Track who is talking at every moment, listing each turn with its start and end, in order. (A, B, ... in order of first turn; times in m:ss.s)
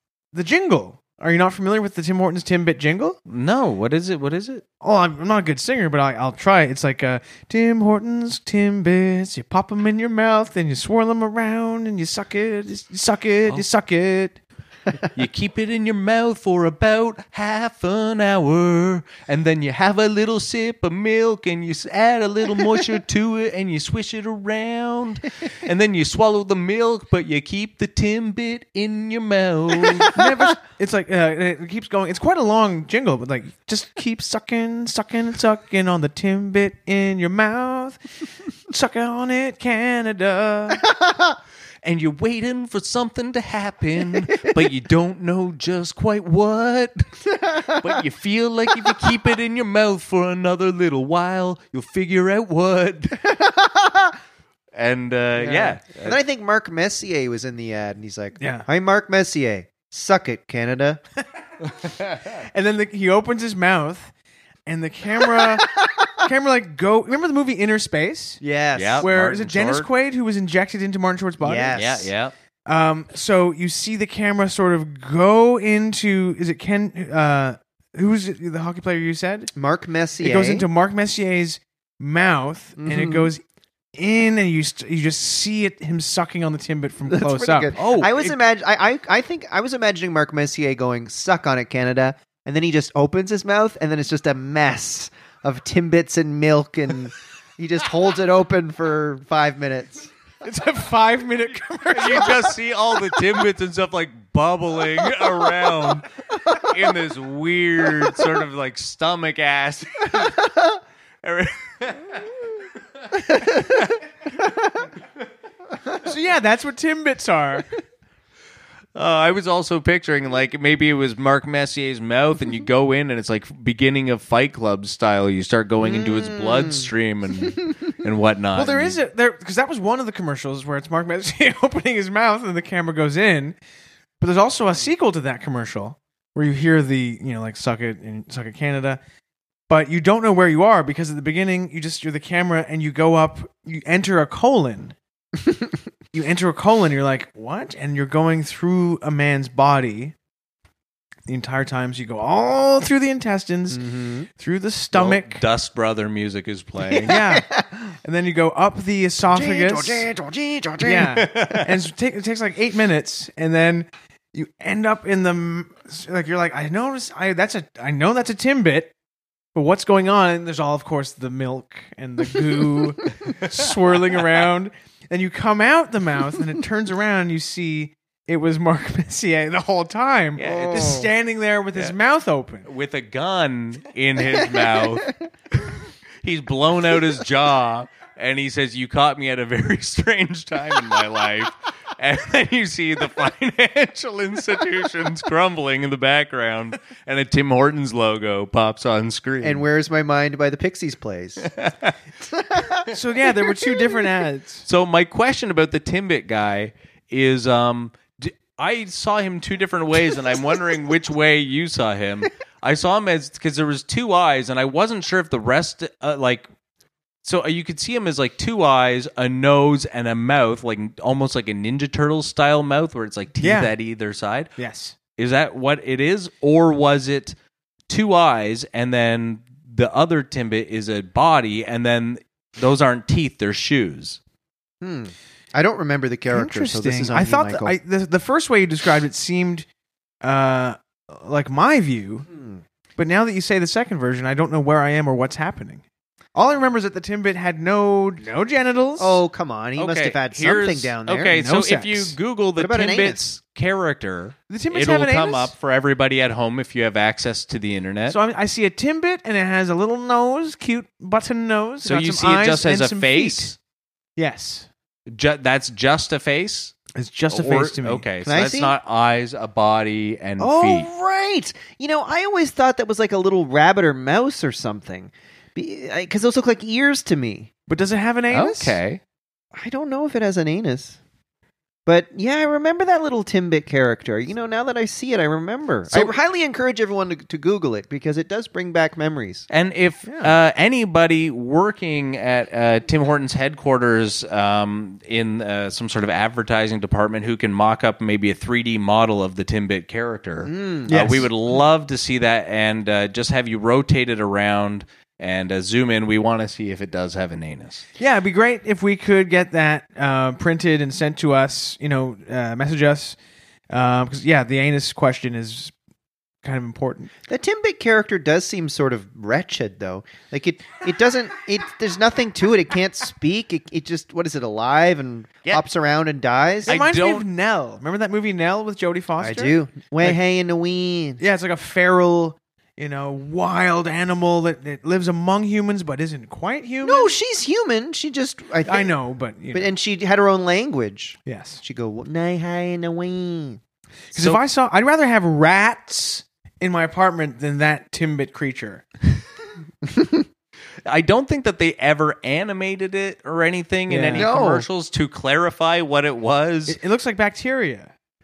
0:00.3-0:03.2 A
0:03.2-0:04.6 B
0:04.8-0:14.4 A
0:15.1-0:30.2 B
0:29.8-0:38.0 A
0:38.7-0:40.8 A
0:41.1-0:41.3 C
0:41.8-0:53.3 B
0:47.4-0:47.8 C
0:53.3-0:54.1 C
0:54.8-0:56.2 B
0:55.4-1:01.0 C
0:58.4-0:58.7 A
1:02.2-1:04.1 A
1:04.6-1:08.4 A
1:05.3-1:06.2 C
1:08.4-1:09.1 C
1:08.8-1:09.9 B
1:09.0-1:11.8 A
1:11.4-1:12.1 C
1:11.7-1:12.3 B
1:12.7-1:19.5 A
1:19.5-1:20.7 C
1:20.2-1:23.4 A
1:22.8-1:23.3 C
1:24.0-1:27.8 A
1:27.1-1:40.1 C
1:27.8-1:28.3 B
1:40.4-1:42.5 A
1:41.9-1:50.5 B
1:51.2-1:52.3 B
1:53.1-1:54.0 B
1:53.3-1:53.8 C
1:56.0-1:57.7 A
1:58.9-2:09.0 B
2:05.8-2:06.9 C
2:08.5-2:13.6 A
2:14.2-2:19.0 A
2:19.7-2:25.0 A
2:26.1-2:30.1 A
2:31.3-2:35.4 A
2:33.7-2:34.3 C
2:34.9-2:37.1 B
2:36.8-2:37.6 C
2:37.0-2:40.1 A
2:39.3-2:41.2 C
2:40.8-2:48.9 A
2:41.0-2:41.7 B
2:49.5-3:02.7 A
3:00.4-3:01.0 B
3:00.4-3:01.1 C
3:02.6-3:19.6 B
3:04.4-3:05.0 C
3:19.4-3:21.5 C
3:21.4-3:22.0 B
3:22.2-3:22.9 C
3:22.9-3:24.6 A
3:24.6-3:36.4 B
3:37.2-3:44.5 B
3:43.4-3:43.7 A
3:44.6-3:44.9 A
3:45.2-3:47.3 B
3:47.9-3:54.2 B
3:54.8-3:57.7 C
3:56.3-3:59.6 A
4:00.2-4:02.3 A
4:03.0-4:05.8 A
4:06.4-4:09.2 A
4:09.0-4:11.4 C
4:09.8-4:18.2 B
4:11.3-4:12.2 A
4:12.6-4:13.2 C
4:14.5-4:15.5 A
4:18.1-4:23.5 A
4:21.8-4:23.6 B
4:24.2-4:24.7 A
4:25.1-4:26.8 B
4:26.9-4:28.0 A
4:27.3-4:30.9 B
4:28.2-4:28.7 C
4:30.4-4:30.7 A
4:30.6-4:37.5 C
4:37.7-4:38.8 A
4:38.3-4:39.0 B
4:39.5-4:41.0 C
4:41.8-4:49.5 C
4:49.5-5:07.8 B
4:50.0-4:50.3 A
5:00.4-5:00.9 C
5:00.9-5:01.3 A
5:08.0-5:13.2 A
5:13.7-5:15.7 A
5:16.4-5:17.1 A
5:17.3-5:26.8 C
5:26.7-5:27.2 B
5:26.7-5:30.2 A
5:29.2-5:31.2 C
5:31.2-5:37.1 A
5:36.8-5:38.9 C
5:38.6-5:39.7 A
5:39.5-5:43.6 C
5:41.2-5:41.6 A
5:44.1-5:44.4 B
5:44.1-5:48.8 A
5:49.8-5:50.2 C
5:50.8-5:56.8 B
5:53.9-5:54.3 A
5:54.1-5:54.6 C
5:56.7-5:57.9 A